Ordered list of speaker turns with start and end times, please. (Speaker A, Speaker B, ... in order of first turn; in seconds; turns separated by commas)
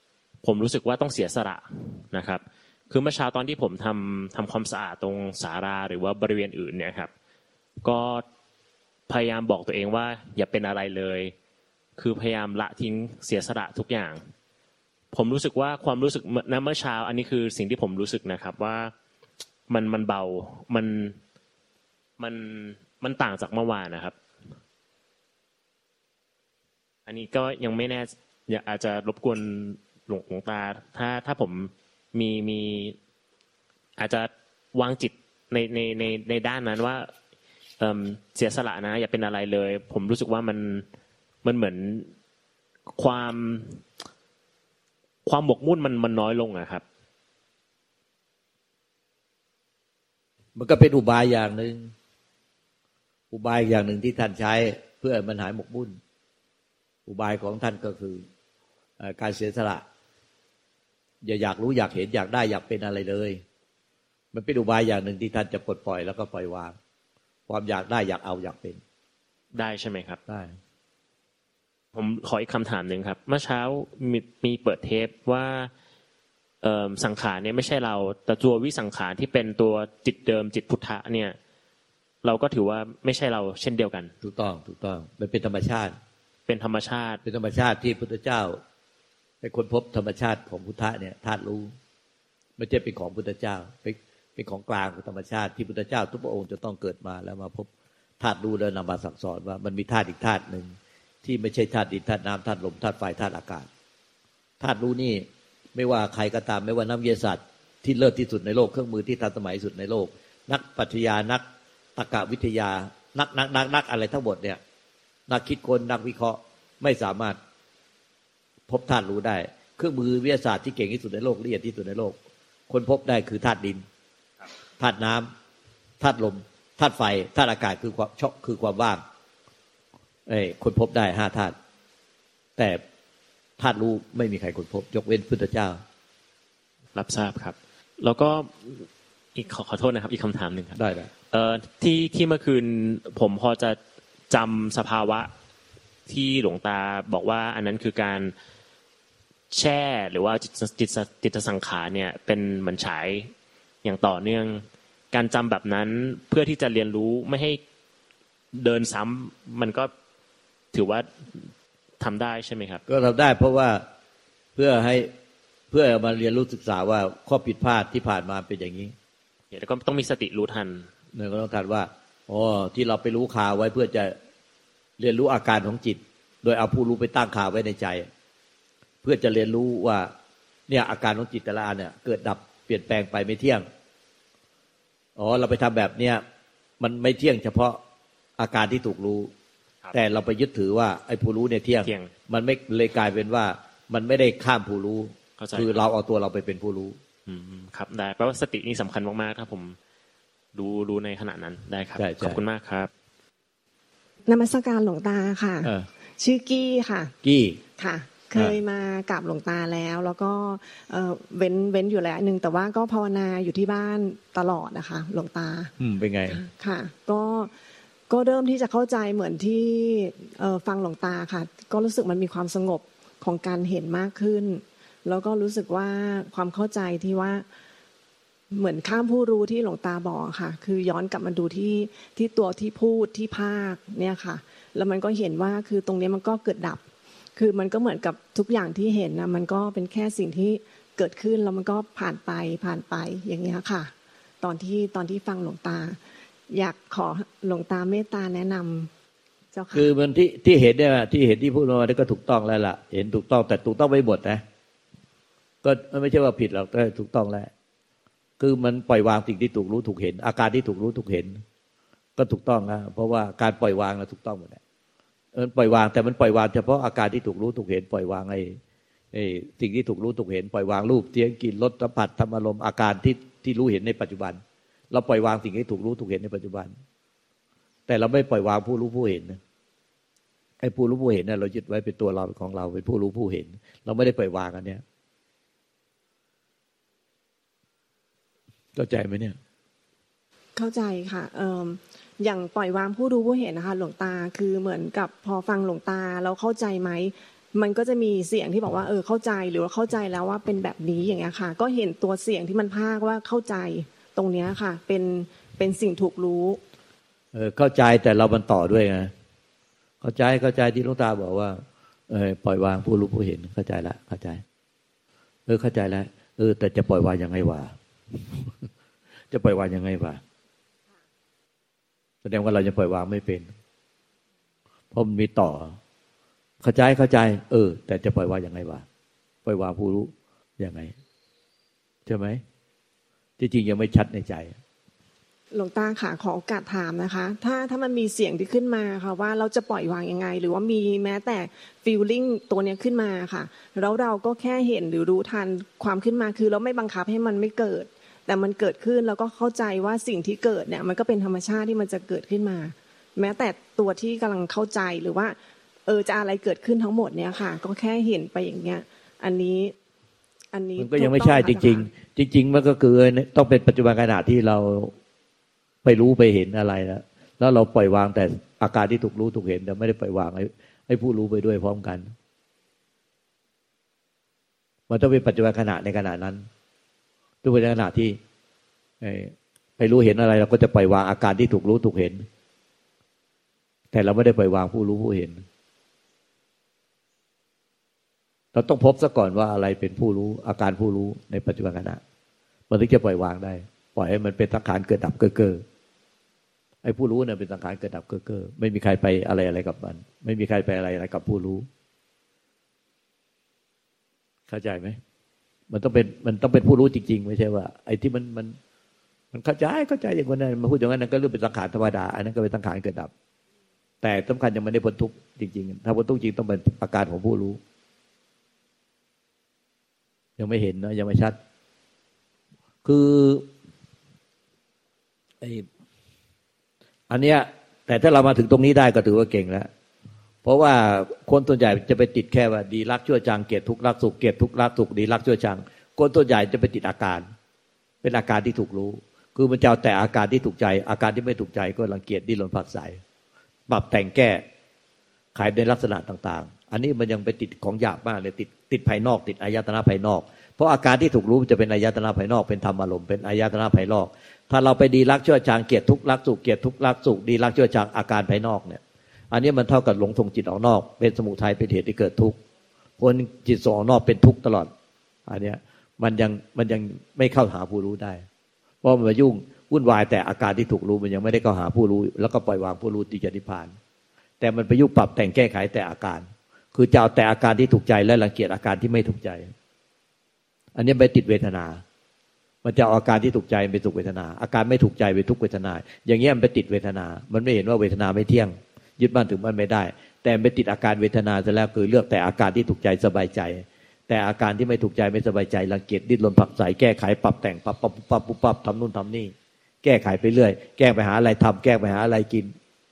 Speaker A: 0.4-7.1, Speaker A: 7.8-8.2, Speaker A: 9.1-11.3, Speaker A: 12.0-14.3, Speaker A: 15.1-18.9, Speaker A: 19.7-21.2, Speaker A: 22.2-24.1, Speaker A: 27.1-33.0, Speaker A: 34.0-37.1, Speaker A: 37.8-40.9, Speaker A: 41.4-42.1, Speaker A: 42.9-43.8, Speaker A: 45.2-46.8, Speaker B: 50.5-51.9, Speaker B: 53.3-56.0, Speaker B: 57.1-58.2, Speaker B: 59.0-59.8, Speaker B: 61.2-63.4, Speaker B: 64.3-66.8, Speaker B: 67.5-68.8, Speaker A: 69.5-70.2, Speaker B: 70.3-70.6, Speaker A: 71.9-75.7, Speaker A: 76.6-81.4, Speaker A: 82.2-84.1, Speaker B: 84.2-85.9, Speaker A: 86.5-87.2, Speaker B: 87.2-88.6, Speaker B: 89.4-91.7, Speaker B: 92.6-97.7, Speaker B: 98.2-103.7, Speaker B: 104.6-111.4, Speaker B: 112.0-114.6, Speaker B: 115.3-117.4, Speaker B: 118.7-122.2, Speaker B: 122.7-123.8, Speaker B: 124.8-125.3, Speaker B: 126.0-129.0, Speaker B: 130.3-131.6, Speaker B: 132.6-132.8, Speaker B: 133.6-135.8, Speaker A: 136.9-140.8, Speaker B: 140.8-141.1, Speaker A: 141.3-143.8, Speaker A: 144.3-145.3, Speaker A: 146.1-148.3, Speaker A: 149.5-153.3, Speaker A: 153.8-157.6, Speaker A: 158.5-159.9, Speaker A: 160.7-161.5, Speaker A: 162.0-162.8, Speaker B: 162.9-163.8, Speaker B: 164.6-165.1, Speaker B: 165.7-168.9, Speaker A: 169.5-170.9, Speaker B: 171.1-174.2, Speaker B: 175.0-178.1, Speaker B: 179.0-180.1, Speaker B: 180.7-183.7, Speaker B: 185.2-186.2, Speaker B: 186.8-187.8, Speaker B: 188.4-189.3, Speaker B: 189.9-197.0, Speaker A: 191.8-192.1, Speaker A: 195.4-195.8, Speaker A: 197.2-199.8, Speaker A: 200.5-202.9, Speaker B: 202.0-202.4, Speaker C: 204.3-207.1, Speaker B: 207.2-207.6, Speaker C: 207.8-215.7, Speaker B: 215.8-216.4, Speaker C: 216.3-217.5, Speaker C: 218.1-227.4, Speaker C: 228.5-236.8, Speaker C: 237.3-246.0, Speaker C: 246.5-248.9, Speaker C: 249.5-249.9, Speaker B: 249.7-254.4, Speaker B: 255.6-257.5, Speaker B: 258.4-261.4, Speaker B: 262.2-264.6, Speaker B: 265.3-268.6, Speaker B: 269.1-276.7, Speaker B: 277.9-279.4, Speaker B: 280.6-284.8, Speaker B: 288.8-289.4, Speaker C: 290.6-306.6, Speaker B: 307.3-309.1, Speaker B: 310.0-314.4, Speaker B: 315.5-318.7, Speaker B: 319.3-320.2, Speaker B: 322.2-323.5, Speaker B: 324.9-325.8, Speaker B: 326.6-328.8, Speaker B: 329.4-330.9, Speaker B: 332.1-332.4, Speaker B: 333.4-334.6, Speaker C: 335.5-355.4, Speaker C: 355.9-359.7, Speaker C: 360.5-361.9, Speaker B: 360.8-364.9, Speaker B: 365.8-372.1, Speaker B: 374.9-376.5, Speaker B: 377.4-378.2, Speaker B: 379.0-382.3, Speaker B: 383.9-385.4, Speaker B: 388.5-392.0, Speaker B: 392.7-395.6, Speaker B: 396.8-401.7, Speaker B: 404.5-405.0, Speaker B: 405.7-408.6, Speaker B: 409.3-413.1, Speaker B: 414.0-417.6, Speaker B: 420.4-421.4, Speaker B: 422.8-423.5, Speaker B: 425.4-425.7, Speaker B: 427.1-429.7, Speaker B: 430.4-437.2, Speaker B: 438.0-443.0, Speaker B: 443.7-444.4, Speaker B: 445.3-462.4, Speaker B: 463.0-464.7, Speaker B: 465.3-468.2, Speaker B: 468.8-473.7, Speaker B: 474.4-479.5, Speaker B: 480.8-481.8, Speaker B: 482.6-502.5